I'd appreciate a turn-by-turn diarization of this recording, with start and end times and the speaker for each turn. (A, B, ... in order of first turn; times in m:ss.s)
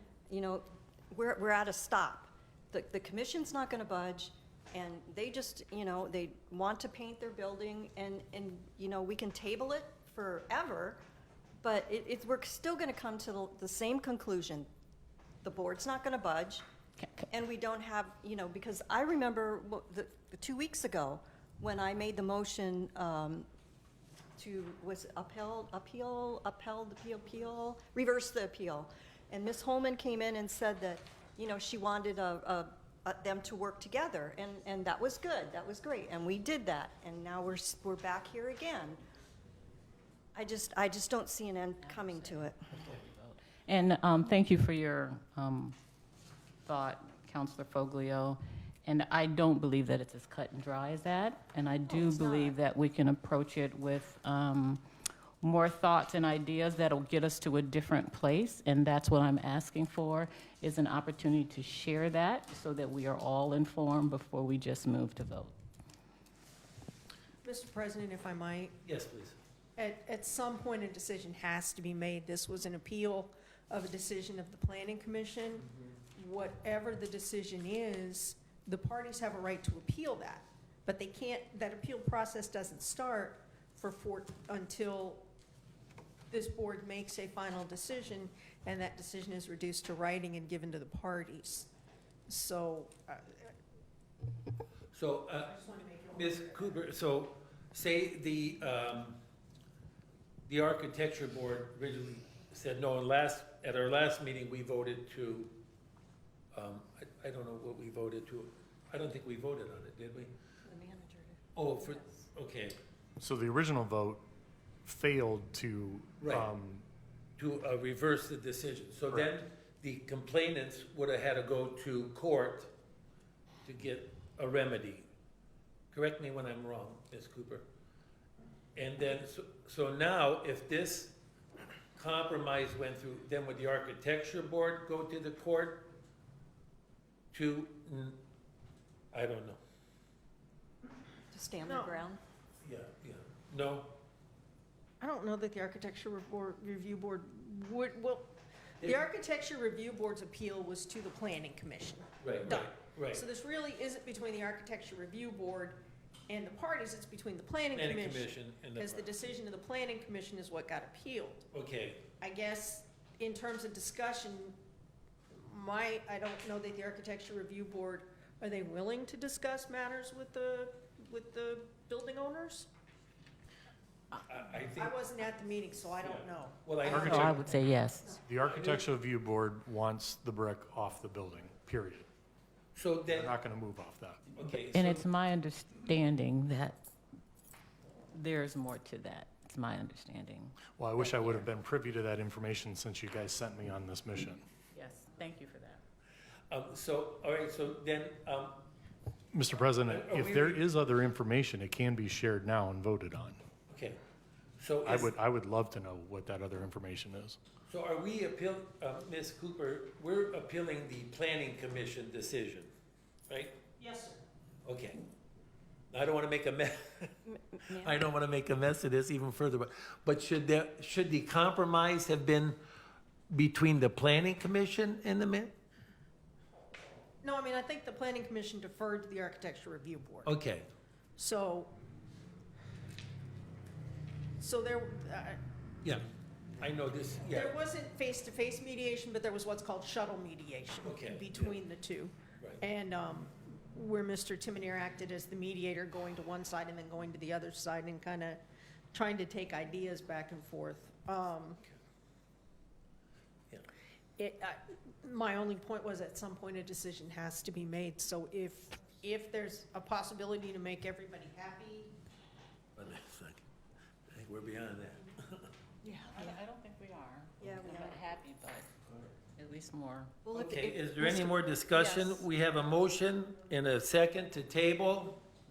0:00.3-0:11.0 A
0:11.6-0:14.7 A
0:15.4-0:16.6 A
0:17.0-0:17.3 B
0:17.3-0:23.5 A
0:24.4-0:39.0 A
0:40.3-0:42.7 A
0:41.8-0:45.8 B
0:46.6-0:54.8 B
0:51.9-0:52.5 A
0:55.4-1:05.6 B
1:07.4-1:08.7 C
1:08.8-1:09.4 D
1:09.8-1:25.2 C
1:26.3-1:31.7 C
1:32.3-1:33.5 C
1:34.9-1:35.5 D
1:35.4-1:36.8 C
1:36.1-1:39.2 D
1:40.4-1:45.5 D
1:46.5-1:50.3 D
1:50.6-1:52.3 A
1:51.6-1:52.8 D
1:53.2-1:54.2 E
1:54.8-1:56.8 E
1:56.2-1:56.5 D
1:57.4-2:02.7 D
2:03.6-2:05.1 D
2:05.9-2:07.6 D
2:08.8-2:11.2 D
2:12.0-2:15.9 D
2:17.3-2:18.2 D
2:19.1-2:19.6 D
2:21.3-2:22.2 A
2:21.6-2:22.0 C
2:22.6-2:23.9 D
2:25.0-2:41.4 C
2:32.2-2:33.2 D
2:37.7-2:39.1 D
2:41.5-2:42.0 D
2:42.2-2:44.6 C
2:45.4-2:52.7 C
2:54.1-2:54.9 D
2:54.8-2:57.3 C
2:56.0-2:57.4 D
2:56.8-2:57.4 E
2:57.1-2:58.2 B
2:58.1-3:02.1 E
2:58.4-2:58.8 D
3:02.7-3:03.3 D
3:03.1-3:04.2 E
3:04.3-3:05.0 D
3:04.7-3:06.8 B
3:08.1-3:11.5 B
3:10.7-3:14.4 E
3:14.7-3:15.8 B
3:16.5-3:18.6 D
3:19.3-3:23.4 E
3:19.8-3:20.6 D
3:23.7-3:24.0 D
3:24.6-3:25.1 D
3:24.8-3:27.4 E
3:27.7-3:32.7 D
3:33.3-3:33.6 D
3:33.8-3:34.2 C
3:34.6-3:35.0 D
3:35.9-3:42.6 D
3:37.3-3:38.0 A
3:43.3-3:45.5 D
3:47.2-3:50.3 C
3:50.2-3:50.7 D
3:51.2-3:51.7 C
3:54.4-3:55.4 C
3:56.6-3:57.5 D
3:57.3-4:08.4 C
4:00.8-4:01.6 D
4:08.9-4:11.6 C
4:14.2-4:21.9 C
4:22.8-4:23.4 D
4:24.1-4:25.5 D
4:25.8-4:28.7 B
4:27.4-4:27.9 A
4:29.2-4:30.2 B
4:30.2-4:32.2 A
4:30.3-4:35.2 D